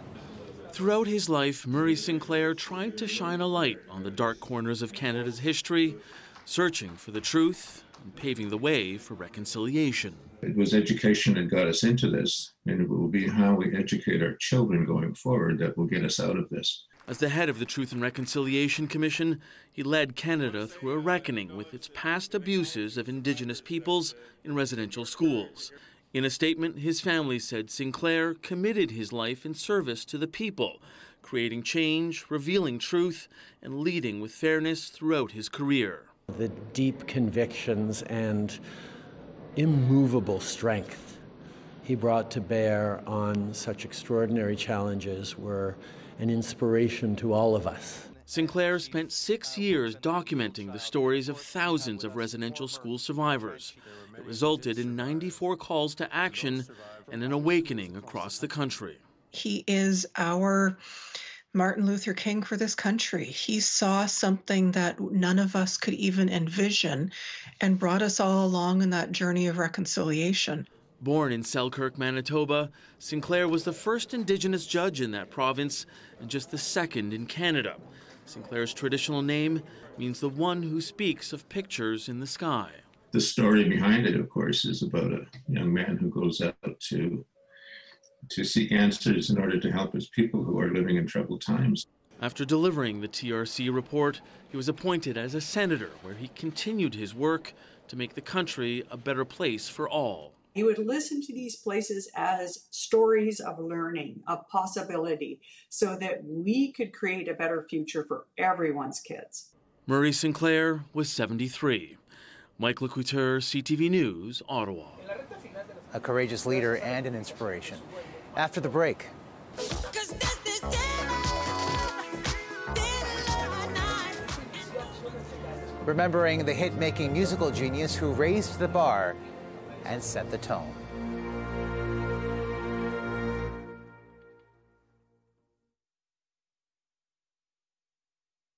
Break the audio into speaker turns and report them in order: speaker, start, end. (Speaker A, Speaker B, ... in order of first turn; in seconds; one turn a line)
Speaker A: 0.7-10.3
Speaker B: 10.4-16.9
Speaker A: 17.1-36.1
Speaker C: 36.3-38.6
Speaker C: 39.5-41.2
Speaker C: 41.8-48.1
Speaker A: 48.2-59.0
Speaker D: 59.3-60.8
Speaker D: 61.5-70.7
Speaker A: 71.0-82.8
Speaker B: 83.1-87.3
Speaker B: 88.3-91.8
Speaker A: 92.2-100.4
Speaker E: 100.5-109.5
Speaker A: 109.9-112.0
Speaker A: 112.6-115.0
Speaker F: 115.9-119.1
Speaker F: 125.8-129.2
Speaker F: 129.8-130.8